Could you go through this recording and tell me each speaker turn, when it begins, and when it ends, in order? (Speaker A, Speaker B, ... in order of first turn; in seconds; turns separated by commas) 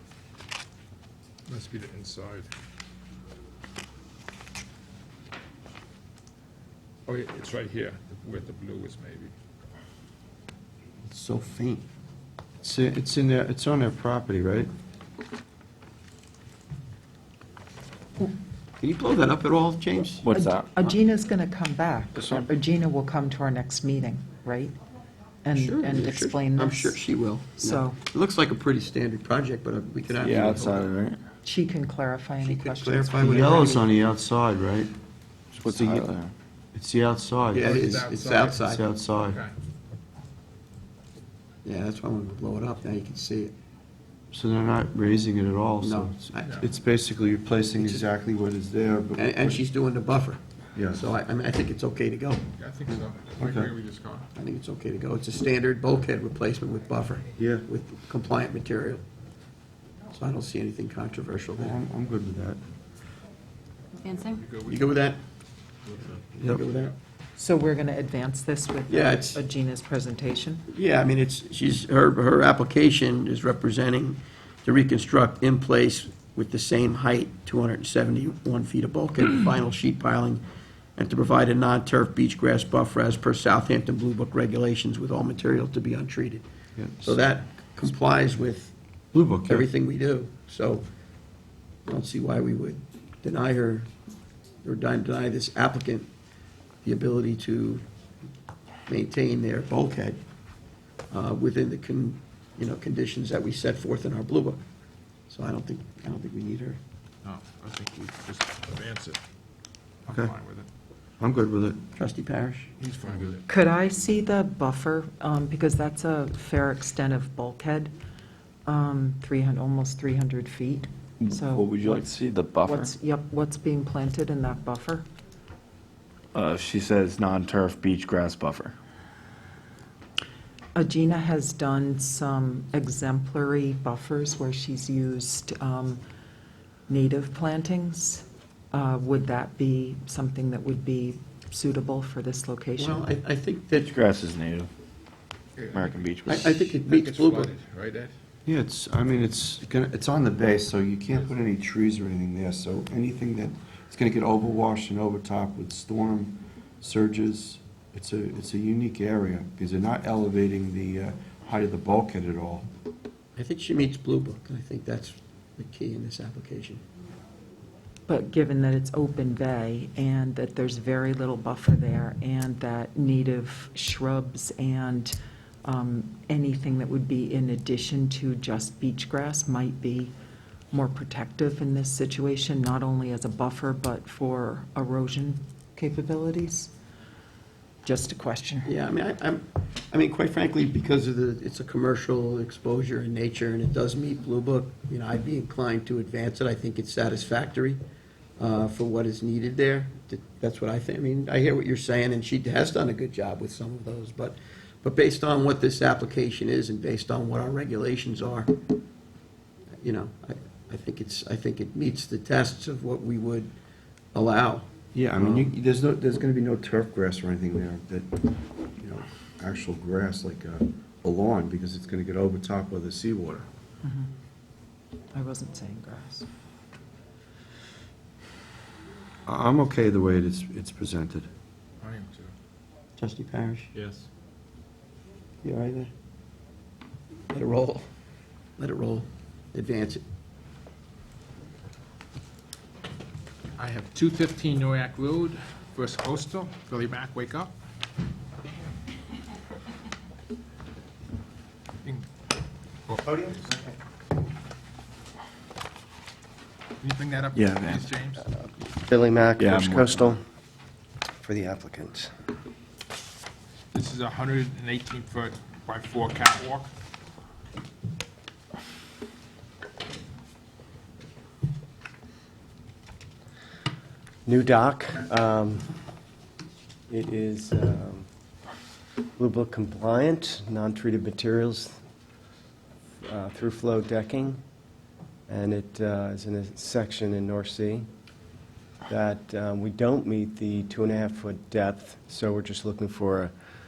Speaker A: 1.5-2.5, Speaker A: 7.1-9.3, Speaker B: 11.1-11.9, Speaker C: 12.6-14.7, Speaker B: 18.8-20.3, Speaker D: 20.2-20.9, Speaker E: 20.3-24.7, Speaker D: 22.2-22.5, Speaker E: 25.4-27.0, Speaker B: 25.5-30.9, Speaker E: 27.6-28.0, Speaker D: 30.2-31.2, Speaker E: 31.4-33.9, Speaker B: 32.4-33.8, Speaker C: 33.2-34.9, Speaker D: 35.5-36.3, Speaker C: 35.7-36.1, Speaker C: 36.7-37.7, Speaker B: 37.5-38.8, Speaker A: 37.6-39.5, Speaker C: 38.7-39.4, Speaker B: 41.6-43.5, Speaker C: 44.3-49.6, Speaker B: 45.8-46.5, Speaker A: 46.4-46.7, Speaker B: 47.8-48.1, Speaker B: 49.1-52.4, Speaker C: 50.8-51.0, Speaker A: 52.5-54.3, Speaker C: 53.4-53.7, Speaker B: 54.4-59.0, Speaker C: 57.4-57.6, Speaker B: 60.1-61.8, Speaker C: 61.6-62.6, Speaker A: 64.3-64.8, Speaker B: 64.6-65.2, Speaker B: 66.0-67.0, Speaker E: 67.4-70.7, Speaker B: 68.9-69.4, Speaker B: 70.7-80.4, Speaker B: 81.0-86.4, Speaker C: 86.8-87.2, Speaker B: 87.0-88.8, Speaker C: 89.1-89.7, Speaker B: 89.5-90.8, Speaker B: 91.9-93.9, Speaker B: 94.6-96.1, Speaker B: 96.8-97.8, Speaker B: 98.9-100.2, Speaker B: 101.1-104.6, Speaker B: 105.3-106.8, Speaker A: 107.2-109.2, Speaker A: 110.1-110.7, Speaker C: 110.1-110.3, Speaker C: 111.2-111.8, Speaker B: 112.0-112.7, Speaker A: 112.8-113.5, Speaker E: 113.5-117.9, Speaker E: 118.7-122.0, Speaker D: 121.2-122.9, Speaker E: 122.6-125.1, Speaker D: 126.3-128.8, Speaker E: 130.8-136.0, Speaker E: 136.9-143.1, Speaker B: 142.8-143.9, Speaker D: 143.7-144.7, Speaker A: 145.6-148.1, Speaker D: 145.7-146.8, Speaker B: 146.3-147.6, Speaker C: 148.5-162.7, Speaker B: 163.4-166.8, Speaker E: 168.1-175.1, Speaker E: 175.7-180.1, Speaker E: 180.7-186.7, Speaker E: 187.8-188.7, Speaker B: 188.7-197.8, Speaker B: 198.4-208.6, Speaker B: 209.8-213.5, Speaker B: 214.1-215.5, Speaker C: 214.9-223.5, Speaker E: 223.8-224.1, Speaker E: 225.1-226.3, Speaker C: 229.3-231.3, Speaker A: 231.8-232.3, Speaker B: 233.0-233.7, Speaker A: 233.8-234.1, Speaker B: 235.4-235.9, Speaker B: 237.3-237.9, Speaker B: 238.6-240.0, Speaker A: 243.6-247.5, Speaker A: 252.9-253.5, Speaker A: 256.8-258.3, Speaker D: 257.3-257.9, Speaker F: 258.7-260.2, Speaker D: 259.4-260.2, Speaker F: 261.2-262.1, Speaker A: 263.7-266.7, Speaker F: 274.3-275.7, Speaker F: 276.9-278.1, Speaker F: 279.2-281.8, Speaker F: 283.0-284.4, Speaker F: 285.3-287.9, Speaker F: 288.9-293.3